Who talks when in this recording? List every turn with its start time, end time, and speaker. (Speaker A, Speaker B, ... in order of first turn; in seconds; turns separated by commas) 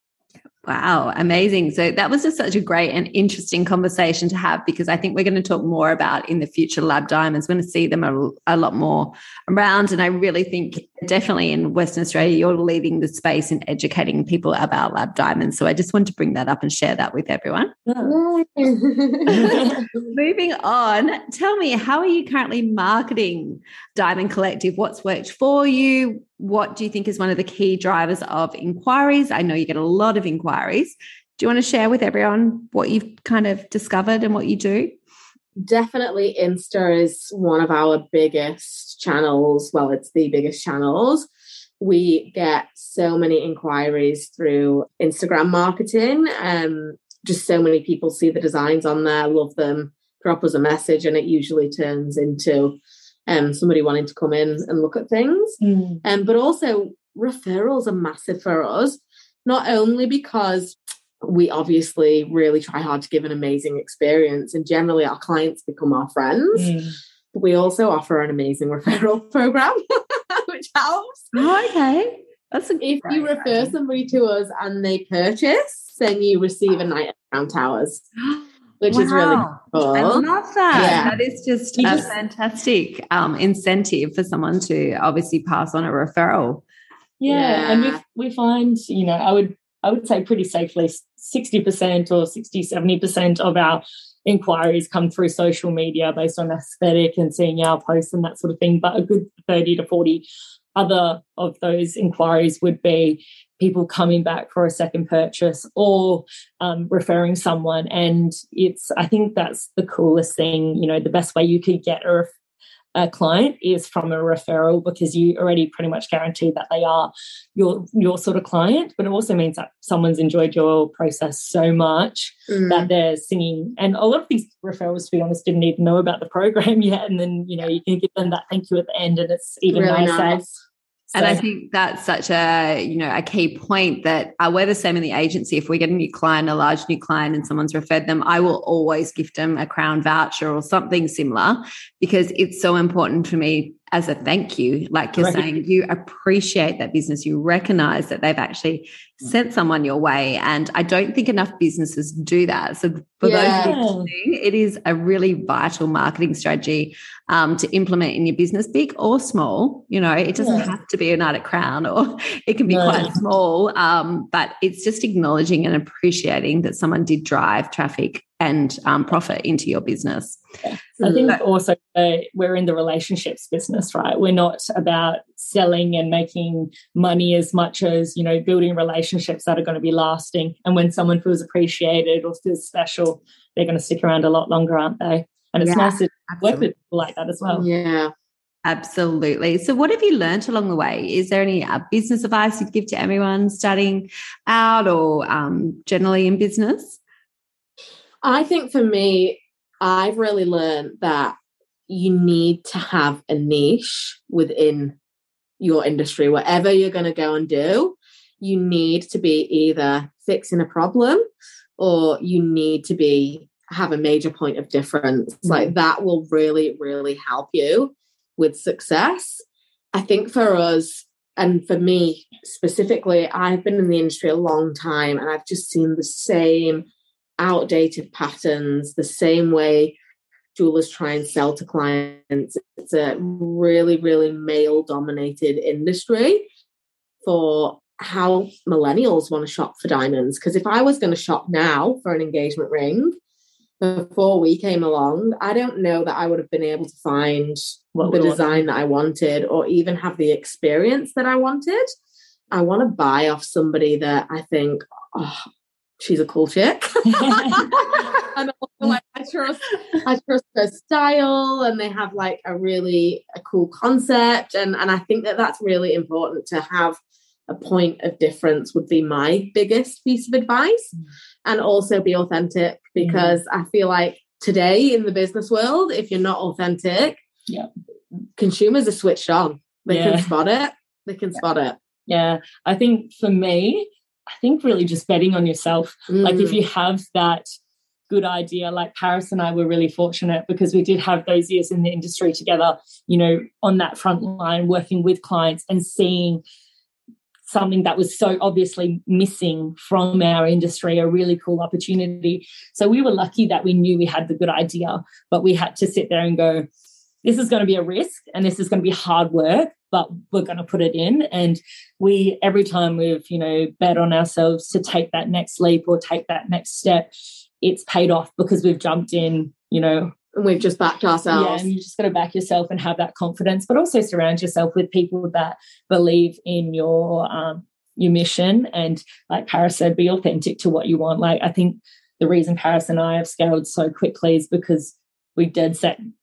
Speaker A: 0.6-17.8, Speaker B: 17.9-18.1, Speaker C: 18.0-20.1, Speaker B: 19.3-19.9, Speaker A: 19.3-35.0, Speaker C: 35.6-41.3, Speaker C: 41.8-66.8, Speaker B: 55.6-56.0, Speaker B: 66.5-67.0, Speaker C: 67.3-71.4, Speaker A: 71.3-73.8, Speaker C: 72.8-78.0, Speaker A: 78.3-86.7, Speaker C: 78.8-81.2, Speaker B: 80.8-81.1, Speaker B: 81.8-82.1, Speaker B: 87.2-112.3, Speaker C: 87.3-88.0, Speaker B: 113.0-130.4, Speaker C: 122.5-122.9, Speaker C: 129.7-130.5, Speaker B: 131.1-131.4, Speaker A: 131.1-170.4, Speaker B: 145.2-145.5, Speaker C: 153.2-153.8, Speaker B: 153.6-154.1, Speaker B: 160.4-160.7, Speaker B: 162.7-163.2, Speaker B: 170.6-187.7, Speaker C: 171.0-171.3, Speaker A: 185.6-186.7, Speaker C: 187.5-188.1, Speaker A: 188.7-197.0, Speaker C: 198.2-201.4, Speaker C: 201.9-204.9, Speaker C: 205.6-211.2, Speaker C: 211.8-226.8, Speaker B: 215.5-215.7, Speaker C: 227.4-230.0, Speaker C: 230.6-236.5, Speaker C: 237.2-243.2, Speaker C: 243.8-251.9, Speaker B: 247.9-248.6, Speaker C: 252.5-255.4, Speaker C: 256.0-270.9, Speaker B: 257.1-257.9, Speaker C: 271.4-277.2, Speaker B: 273.0-273.4, Speaker C: 278.4-281.8, Speaker B: 279.9-280.3, Speaker B: 282.1-287.5, Speaker C: 286.1-286.6, Speaker B: 288.1-296.4, Speaker B: 297.5-306.7, Speaker B: 307.2-317.1, Speaker B: 317.6-320.1, Speaker C: 320.4-321.7, Speaker B: 321.3-336.0